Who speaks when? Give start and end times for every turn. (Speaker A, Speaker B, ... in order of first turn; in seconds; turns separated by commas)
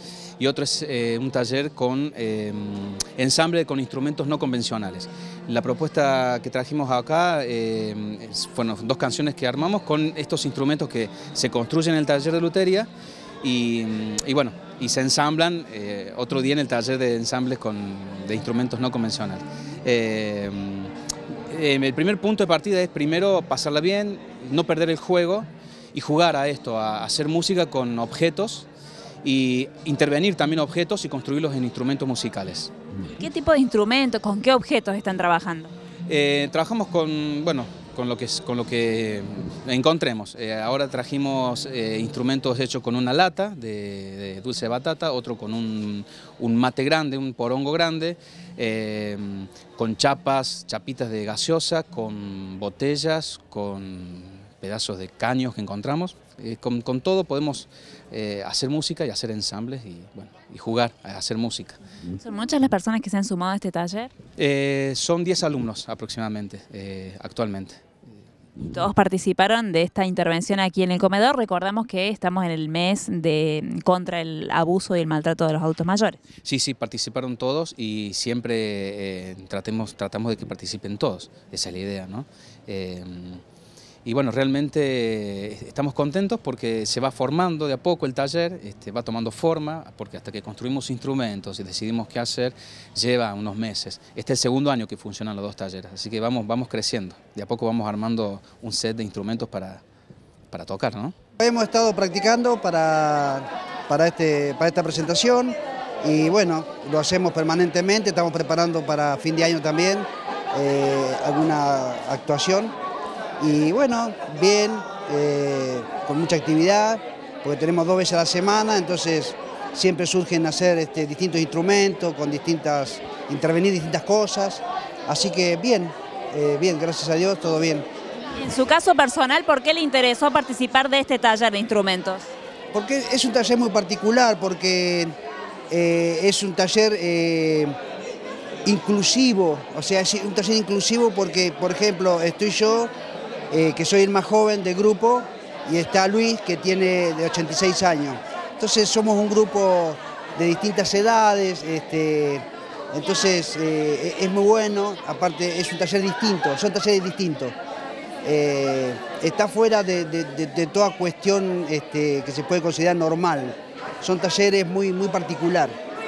Speaker A: 0.4-12.9, Speaker A: 13.4-20.9, Speaker A: 21.5-28.7, Speaker A: 29.2-32.7, Speaker B: 33.0-35.7, Speaker A: 36.1-61.8, Speaker B: 62.2-64.1, Speaker A: 64.4-67.8, Speaker B: 68.6-76.2, Speaker A: 76.4-83.4, Speaker A: 84.0-99.8, Speaker A: 100.5-101.1, Speaker C: 101.4-112.7, Speaker C: 113.4-127.8, Speaker B: 128.3-132.3, Speaker C: 132.7-135.1, Speaker C: 135.7-137.7, Speaker C: 138.6-142.9, Speaker C: 143.5-157.5, Speaker C: 158.2-165.7